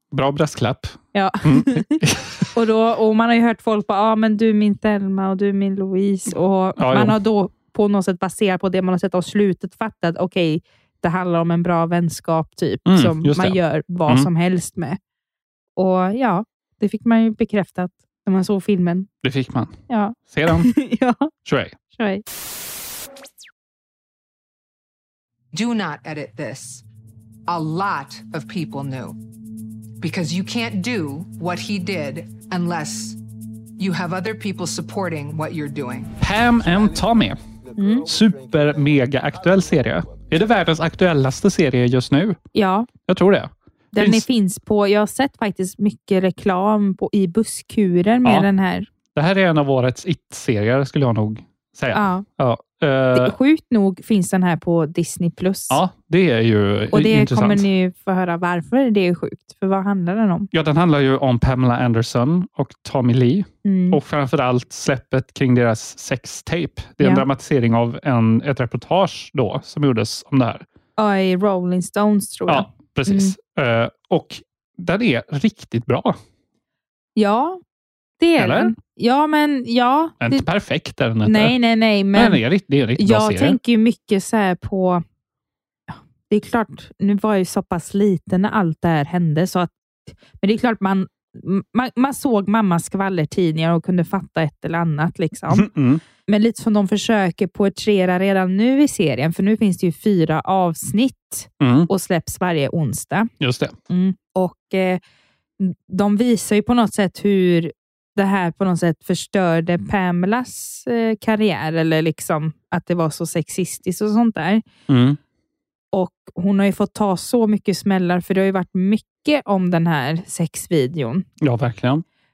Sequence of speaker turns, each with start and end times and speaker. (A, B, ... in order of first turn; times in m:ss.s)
0:00.1-0:02.4 A
0:01.1-0:02.0 B
0:02.5-0:15.0 B
0:06.8-0:07.2 A
0:12.8-0:14.3 A
0:15.8-0:19.1 B
0:19.2-0:20.7 A
0:19.9-0:21.3 B
0:21.4-0:21.7 A
0:21.9-0:22.2 B
0:25.5-0:26.8 C
0:27.5-0:29.2 C
0:30.0-0:33.2 C
0:33.8-0:36.1 C
0:36.2-0:37.4 A
0:37.8-0:38.1 B
0:38.0-0:42.4 A
0:42.5-0:42.9 B
0:43.1-0:44.2 A
0:43.9-0:48.9 B
0:49.1-0:53.3 A
0:51.9-0:52.2 B
0:53.1-0:55.8 B
0:55.7-0:57.6 A
0:56.9-1:00.5 B
1:00.5-1:10.6 A
1:03.6-1:04.0 B
1:07.0-1:07.2 B
1:11.0-1:13.3 B
1:12.5-1:16.2 A
1:17.2-1:17.6 B
1:18.2-1:20.4 B
1:18.4-1:18.7 A
1:20.2-1:21.6 A
1:21.2-1:22.4 B
1:22.1-1:23.6 A
1:23.0-1:25.0 B
1:25.9-1:29.7 B
1:30.2-1:35.7 B
1:35.5-1:36.0 A
1:36.3-1:43.3 B
1:41.6-1:41.9 A
1:43.4-1:43.7 A
1:43.9-1:45.0 B
1:45.6-1:54.6 B
1:54.9-1:55.2 A
1:55.9-2:01.2 B
2:01.4-2:02.0 A